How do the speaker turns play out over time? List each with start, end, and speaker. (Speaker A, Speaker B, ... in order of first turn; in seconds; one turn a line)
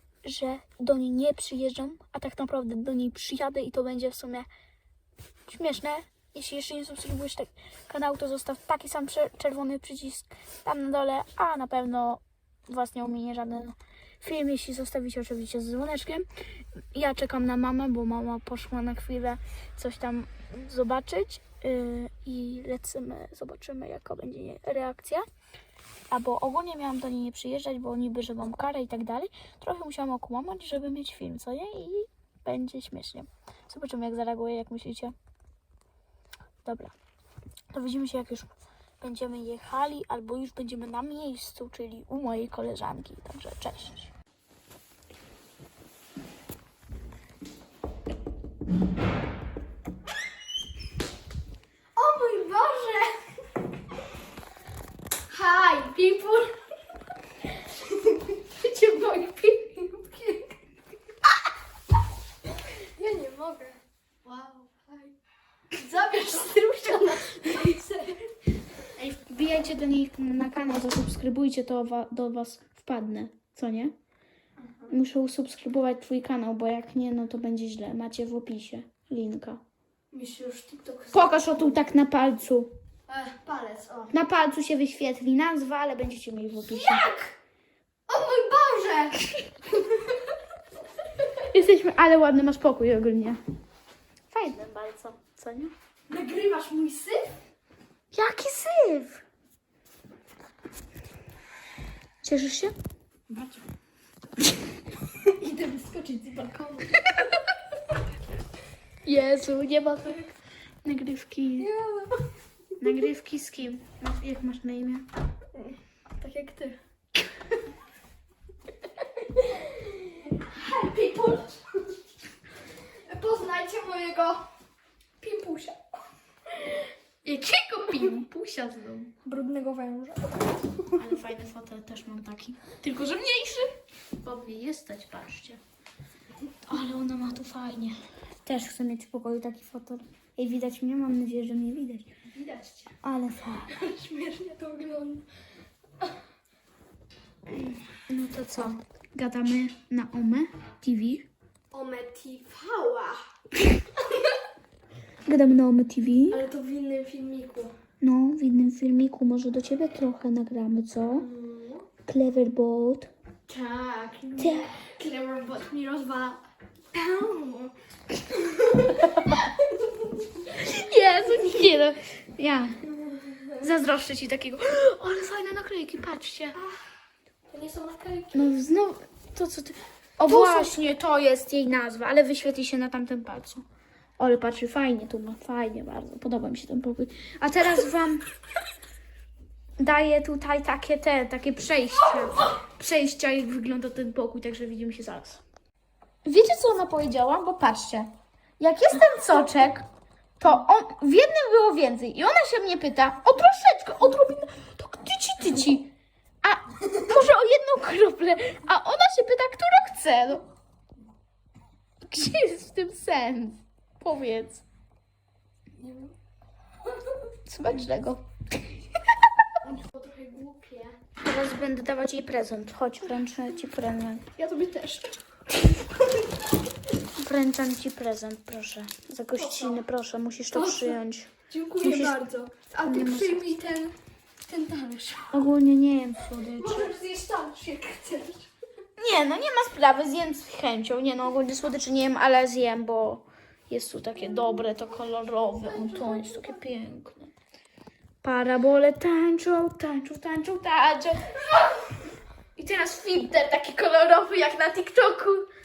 Speaker A: 0.2-4.5
Speaker A: 5.5-16.3
Speaker A: 16.9-25.3
Speaker A: 26.1-35.1
Speaker A: 36.6-37.0
Speaker A: 37.7-38.5
Speaker A: 39.0-44.1
Speaker B: 52.0-53.4
Speaker B: 55.3-56.5
Speaker B: 57.9-60.6
Speaker B: 63.0-65.2
Speaker B: 65.7-68.3
Speaker A: 69.0-73.9
Speaker B: 74.6-74.9
Speaker A: 74.9-79.6
Speaker B: 80.1-81.8
Speaker A: 81.1-82.7
Speaker B: 83.1-84.1
Speaker A: 84.1-87.1
Speaker B: 86.6-87.3
Speaker B: 88.1-90.2
Speaker A: 91.4-93.4
Speaker A: 94.3-95.7
Speaker B: 96.1-97.3
Speaker A: 98.1-99.2
Speaker A: 102.2-102.7
Speaker B: 103.3-103.6
Speaker B: 105.2-107.1
Speaker A: 109.0-110.3
Speaker A: 110.8-111.7
Speaker B: 111.6-112.2
Speaker A: 112.8-115.0
Speaker B: 115.6-116.8
Speaker B: 119.3-121.7
Speaker B: 123.1-124.5
Speaker B: 125.2-125.9
Speaker A: 127.2-129.1
Speaker B: 129.2-131.1
Speaker A: 130.9-135.6
Speaker A: 136.7-142.1
Speaker B: 142.3-143.0
Speaker A: 143.0-143.7
Speaker B: 143.7-145.3
Speaker A: 148.1-151.3
Speaker B: 151.7-153.2
Speaker A: 155.3-156.4
Speaker B: 156.3-157.7
Speaker A: 158.0-161.3
Speaker B: 161.2-161.9
Speaker A: 162.1-163.1
Speaker B: 163.5-167.7
Speaker A: 164.4-164.7
Speaker B: 168.3-170.5
Speaker A: 170.5-172.8
Speaker B: 173.1-173.5
Speaker A: 173.5-176.6
Speaker B: 176.6-176.8
Speaker B: 177.5-178.6
Speaker A: 178.3-183.6
Speaker B: 180.2-180.8
Speaker A: 184.2-188.2
Speaker A: 189.8-195.4
Speaker A: 196.2-199.9
Speaker A: 200.4-205.9
Speaker A: 206.4-210.4
Speaker A: 212.0-214.6
Speaker B: 215.8-216.1
Speaker A: 217.4-218.8
Speaker B: 219.6-221.0
Speaker A: 221.2-224.3
Speaker B: 224.4-226.4
Speaker A: 227.2-232.2
Speaker B: 229.3-229.8
Speaker B: 230.5-235.4
Speaker A: 232.8-233.6
Speaker A: 235.3-236.9
Speaker B: 236.6-238.5
Speaker A: 239.0-247.3
Speaker B: 244.3-244.8
Speaker B: 245.5-246.6
Speaker A: 248.2-251.8
Speaker A: 252.6-255.5